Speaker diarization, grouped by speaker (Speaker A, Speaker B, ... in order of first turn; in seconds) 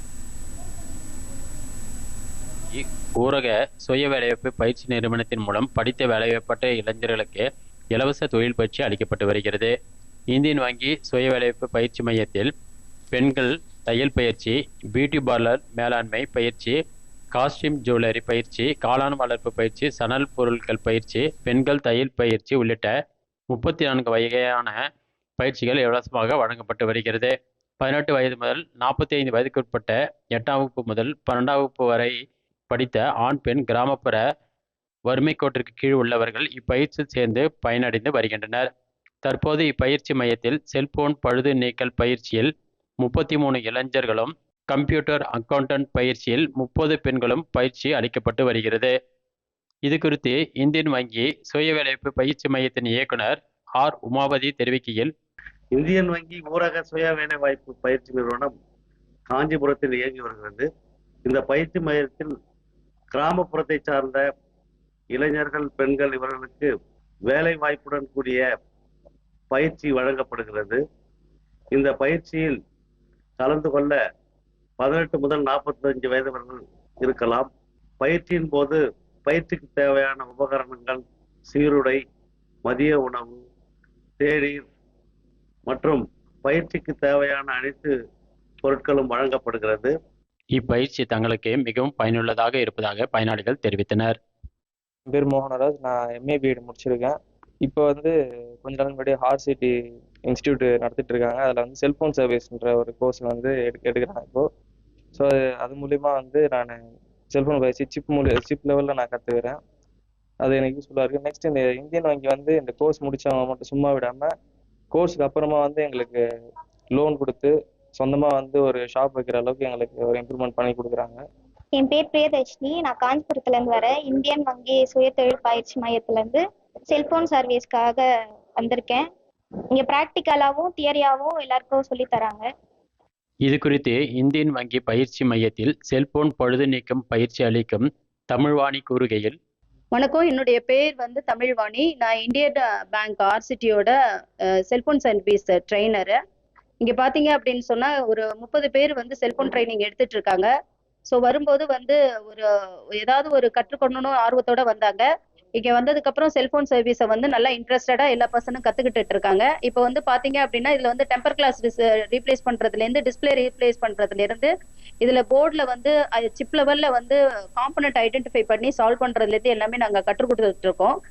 Speaker A: 2.7-9.7, 10.3-12.5, 13.1-16.7, 17.3-22.9, 23.5-24.8, 25.4-34.2, 35.1-38.7, 39.2-48.9, 49.8-55.1, 90.5-94.2, 133.4-139.4
Speaker B: 55.7-58.5, 59.3-60.7, 61.2-62.3, 63.1-64.3, 65.1-66.7, 67.3-68.4, 69.5-70.8, 71.7-72.6, 73.4-74.0, 74.8-77.5, 78.0-82.0, 82.6-83.4, 84.2-84.6, 85.7-87.9, 88.6-89.9
Speaker C: 95.1-99.7, 100.2-104.5, 105.1-109.6, 110.4-114.3, 114.9-116.2, 116.9-121.2
Speaker D: 121.8-128.0, 128.6-129.1, 129.7-132.5
Speaker E: 139.9-143.9, 144.7-146.1, 146.8-150.5, 151.1-155.1, 155.6-164.5, 165.0-170.9